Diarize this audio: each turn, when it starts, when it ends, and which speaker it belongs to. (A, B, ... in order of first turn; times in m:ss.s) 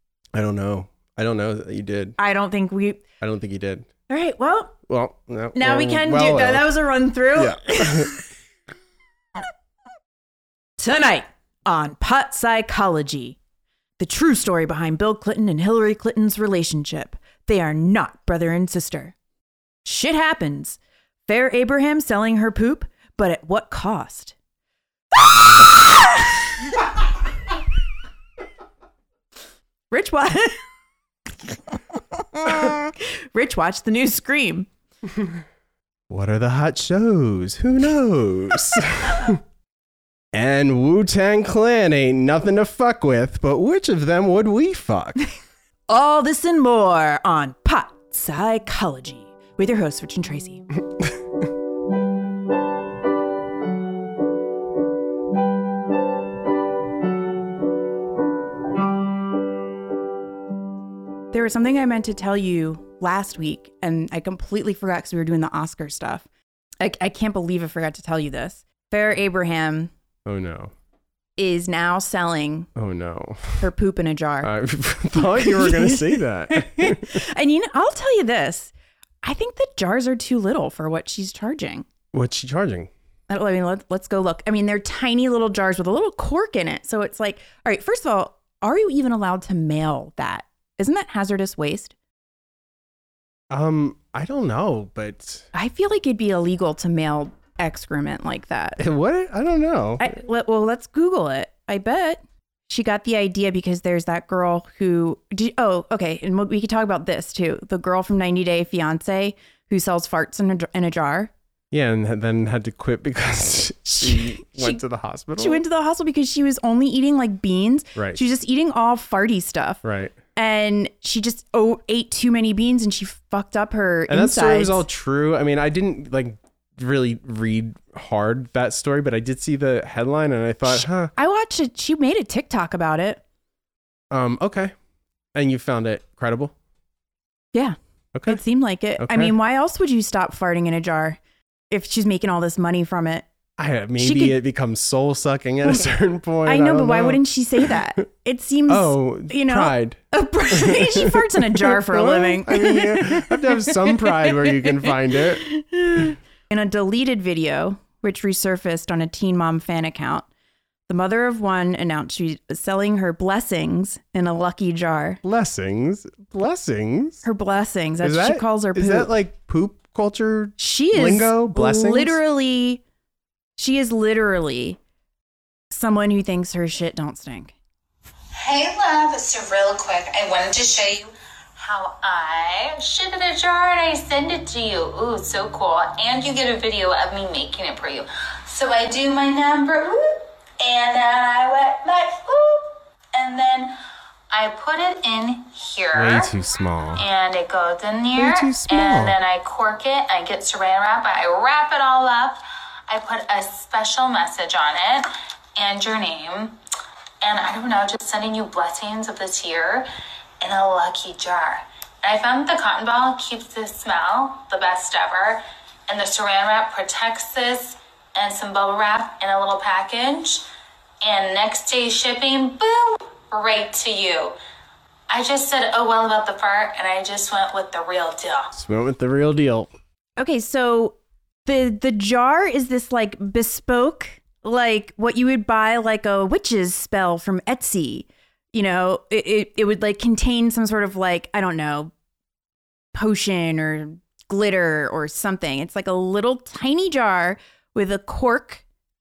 0:00.3-0:02.2 A
0:02.2-0:03.0 B
0:03.2-0:03.9 A
0:04.1-0:04.8 B
0:04.9-0:06.7 A
0:05.5-0:08.2 B
0:07.3-0:08.1 A
0:10.8-0:13.4 B
0:14.0-0:19.1 B
0:19.8-0:24.3 B
0:25.2-0:26.4 B
0:29.9-0:30.6 B
0:32.3-0:34.7 B
0:35.1-0:35.4 A
0:36.1-0:39.4 A
0:40.3-0:45.2 A
0:45.9-0:50.6 B
1:01.3-1:06.3 B
1:06.8-1:09.9 B
1:10.2-1:10.7 A
1:11.4-1:12.7 B
1:12.8-1:13.7 A
1:13.6-1:14.5 B
1:14.4-1:17.2 A
1:15.2-1:18.7 B
1:19.2-1:21.9 B
1:22.1-1:22.9 A
1:23.3-1:31.9 B
1:33.5-1:35.5 A
1:35.5-1:38.8 B
1:38.8-1:40.1 A
1:40.0-1:51.3 B
1:51.7-1:55.6 A
1:53.9-1:54.8 B
1:55.4-1:59.8 B
1:58.0-1:58.2 A
1:59.8-2:00.2 A
2:00.3-2:04.8 B
2:04.1-2:11.1 A
2:10.7-2:13.2 B
2:14.1-2:14.7 A
2:15.3-2:16.5 A
2:17.5-2:21.2 B
2:18.1-2:18.4 A
2:19.0-2:19.3 A
2:21.7-2:23.2 B
2:23.6-2:27.8 A
2:24.0-2:24.4 B
2:26.4-2:40.2 B
2:28.7-2:35.5 A
2:40.9-2:45.2 B
2:45.2-2:47.2 A
2:47.2-2:49.1 B
2:48.0-2:52.2 A
2:50.6-2:52.8 B
2:53.6-2:54.8 B
2:55.7-2:57.5 B
2:58.4-3:13.8 C
3:14.3-3:16.3 C
3:15.9-3:17.0 A
3:17.0-3:26.6 C
3:18.1-3:19.1 A
3:27.2-3:29.9 C
3:30.4-3:40.4 C
3:41.0-3:44.4 C
3:45.1-3:48.5 C
3:48.5-3:49.7 A
3:50.2-4:01.9 B
4:02.9-4:08.6 B